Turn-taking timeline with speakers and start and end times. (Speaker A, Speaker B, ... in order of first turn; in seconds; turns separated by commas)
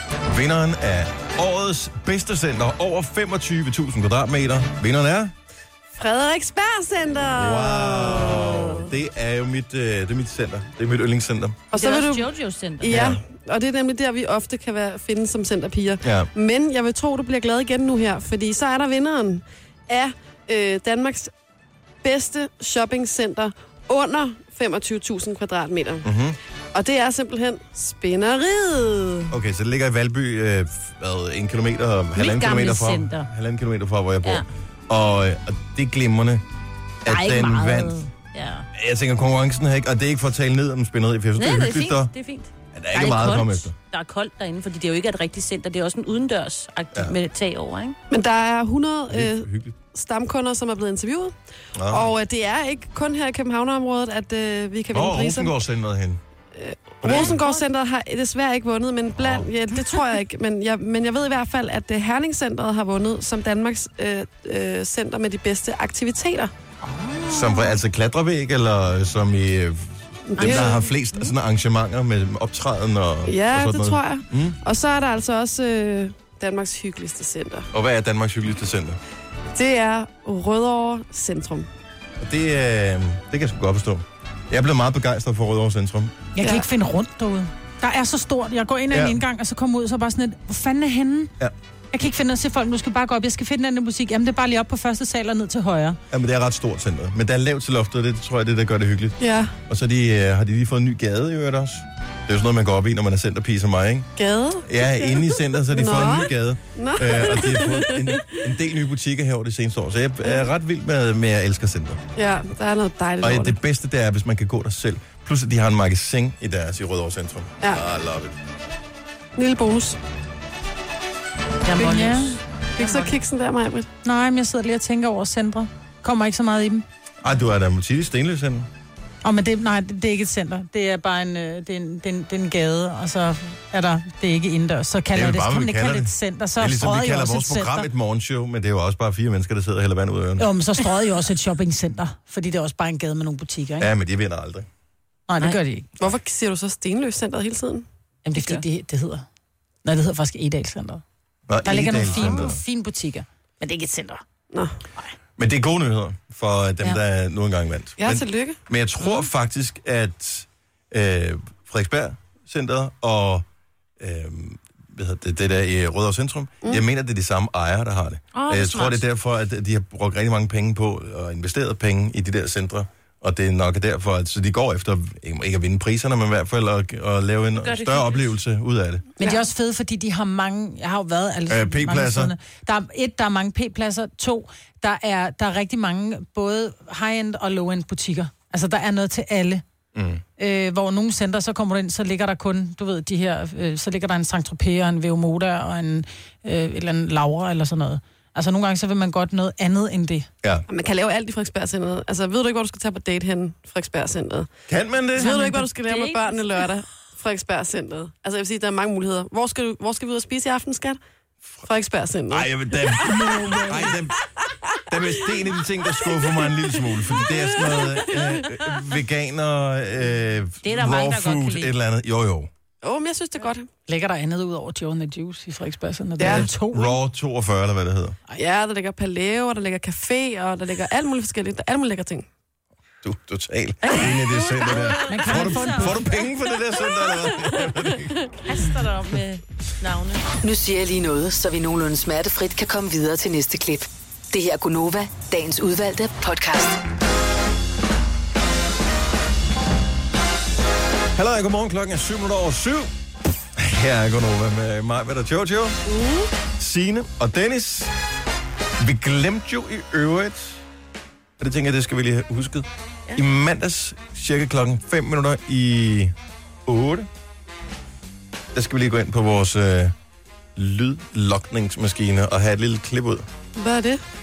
Speaker A: 0.2-5.3, Speaker B: 5.9-8.9, Speaker A: 7.3-11.6, Speaker B: 11.7-21.3, Speaker C: 11.7-13.0, Speaker A: 12.8-13.2, Speaker A: 16.0-16.3, Speaker B: 22.0-26.1, Speaker A: 26.0-26.4, Speaker B: 26.7-29.3, Speaker A: 29.3-36.4, Speaker C: 32.2-33.3, Speaker A: 37.0-38.0, Speaker C: 37.1-38.7, Speaker A: 38.7-42.1, Speaker C: 41.4-48.0, Speaker A: 42.8-43.7, Speaker B: 48.1-51.4, Speaker A: 49.1-49.7, Speaker A: 51.8-52.1, Speaker B: 51.9-55.5, Speaker A: 54.9-56.2, Speaker B: 56.5-66.5, Speaker A: 57.0-57.4, Speaker C: 57.1-57.5, Speaker A: 59.2-59.5, Speaker C: 67.2-67.6, Speaker A: 67.3-74.6, Speaker B: 70.3-70.8, Speaker C: 70.4-70.8, Speaker B: 73.3-77.7, Speaker A: 77.7-79.0, Speaker B: 79.5-81.7, Speaker A: 82.2-86.2, Speaker D: 86.3-91.3, Speaker B: 86.4-86.7, Speaker A: 88.9-89.2, Speaker D: 91.9-96.0, Speaker A: 96.1-104.1, Speaker B: 99.2-99.5, Speaker B: 104.2-108.4, Speaker A: 104.6-112.0, Speaker B: 112.2-113.6, Speaker A: 113.2-118.4, Speaker B: 119.4-120.0, Speaker C: 121.6-123.2, Speaker D: 121.8-122.4, Speaker B: 122.8-123.9, Speaker D: 124.0-126.8, Speaker A: 127.2-128.7, Speaker D: 129.2-137.9, Speaker A: 135.1-140.5, Speaker D: 140.4-143.9, Speaker A: 143.8-144.7, Speaker D: 145.3-145.9, Speaker B: 146.0-147.9, Speaker D: 148.2-149.3, Speaker C: 148.3-148.6, Speaker D: 149.8-151.0, Speaker A: 151.5-152.6, Speaker D: 151.6-154.2, Speaker A: 155.4-163.4, Speaker B: 158.0-158.6, Speaker A: 164.0-179.1, Speaker C: 168.3-169.0, Speaker C: 177.6-178.3, Speaker D: 179.2-189.6, Speaker A: 181.5-182.3, Speaker A: 189.9-190.2, Speaker D: 190.4-200.3, Speaker B: 200.7-204.5, Speaker A: 204.7-205.4, Speaker B: 205.2-211.0, Speaker D: 205.2-205.7, Speaker C: 205.8-206.7, Speaker B: 211.7-214.0, Speaker A: 212.3-214.2, Speaker B: 214.7-215.4, Speaker A: 214.9-222.5, Speaker B: 216.0-218.6, Speaker C: 220.6-221.7, Speaker B: 222.8-223.7, Speaker D: 223.9-227.0, Speaker B: 226.2-226.5, Speaker A: 226.2-228.2, Speaker B: 228.4-232.3, Speaker A: 233.0-238.2, Speaker C: 233.8-236.2, Speaker D: 235.1-236.0, Speaker B: 237.1-237.9, Speaker C: 238.4-240.2, Speaker E: 240.4-246.8, Speaker A: 251.2-252.9, Speaker A: 253.6-255.8, Speaker B: 255.9-256.3, Speaker A: 256.6-257.9, Speaker A: 258.8-260.6, Speaker A: 261.4-266.1, Speaker A: 266.7-267.1, Speaker A: 268.5-269.9, Speaker A: 270.6-273.3, Speaker B: 273.6-274.0